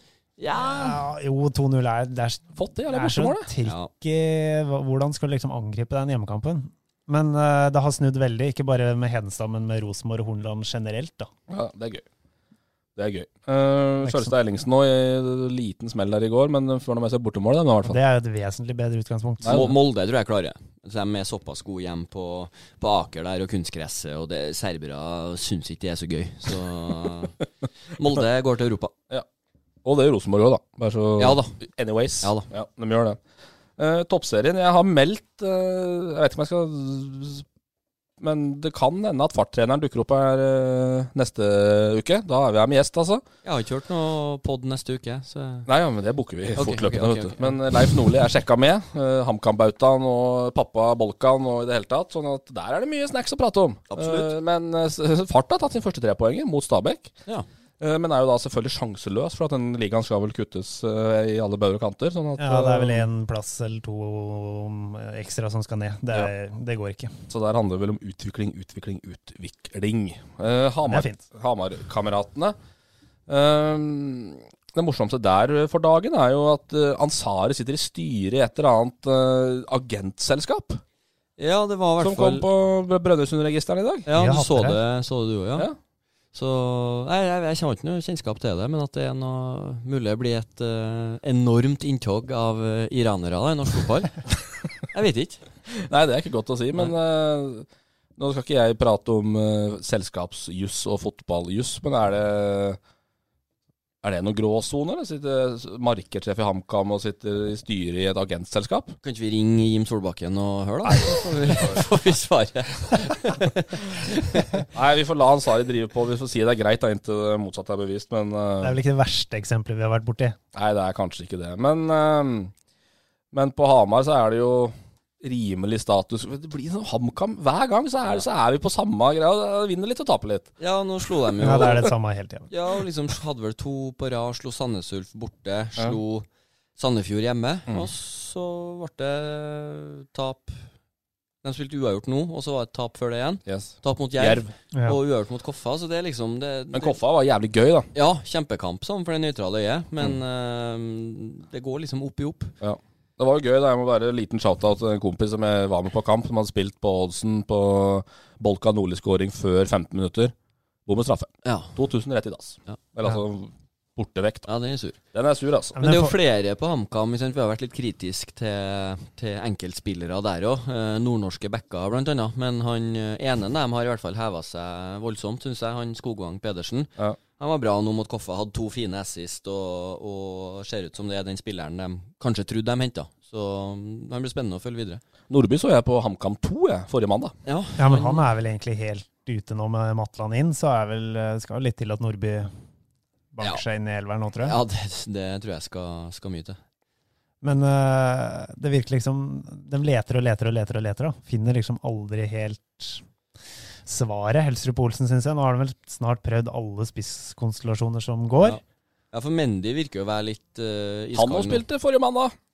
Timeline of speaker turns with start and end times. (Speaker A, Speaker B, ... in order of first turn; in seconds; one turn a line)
Speaker A: 0.4-1.0
Speaker B: 0.5-11.3
Speaker C: 2.6-3.5
Speaker A: 3.6-3.9
Speaker C: 11.5-12.1
Speaker C: 13.0-18.0
Speaker B: 14.0-14.3
Speaker B: 17.8-19.7
Speaker C: 19.4-19.7
Speaker A: 19.4-27.4
Speaker A: 28.0-28.9
Speaker C: 29.8-33.2
Speaker A: 31.2-31.6
Speaker A: 32.2-32.5
Speaker C: 33.8-37.5
Speaker C: 38.2-43.2
Speaker A: 43.4-45.7
Speaker C: 45.7-57.1
Speaker A: 46.6-47.6
Speaker A: 53.9-54.3
Speaker C: 57.8-63.1
Speaker B: 62.4-67.1
Speaker C: 67.3-72.6
Speaker B: 70.9-71.2
Speaker C: 73.3-80.8
Speaker A: 81.4-82.5
Speaker C: 82.0-84.1
Speaker A: 84.1-85.7
Speaker B: 84.1-84.8
Speaker A: 86.3-94.2
Speaker A: 94.9-95.4
Speaker C: 95.7-102.8
Speaker C: 104.0-109.0
Speaker A: 109.0-114.6
Speaker C: 110.8-111.8
Speaker C: 114.7-118.8
Speaker B: 118.6-120.4
Speaker C: 120.5-122.5
Speaker C: 123.3-130.5
Speaker A: 130.6-131.9
Speaker B: 131.4-132.5
Speaker A: 132.5-136.3
Speaker A: 136.8-140.6
Speaker A: 141.4-147.0
Speaker C: 143.5-144.5
Speaker C: 146.7-147.9
Speaker A: 147.9-152.6
Speaker C: 152.6-160.3
Speaker C: 160.9-164.5
Speaker A: 161.4-161.7
Speaker A: 164.5-165.0
Speaker C: 165.1-165.8
Speaker B: 165.8-166.1
Speaker A: 165.8-185.0
Speaker C: 185.3-187.3
Speaker A: 187.5-188.3
Speaker B: 187.8-192.5
Speaker B: 193.3-194.6
Speaker A: 194.4-196.6
Speaker B: 197.4-203.0
Speaker B: 203.9-208.6
Speaker A: 209.1-211.6
Speaker C: 211.1-212.3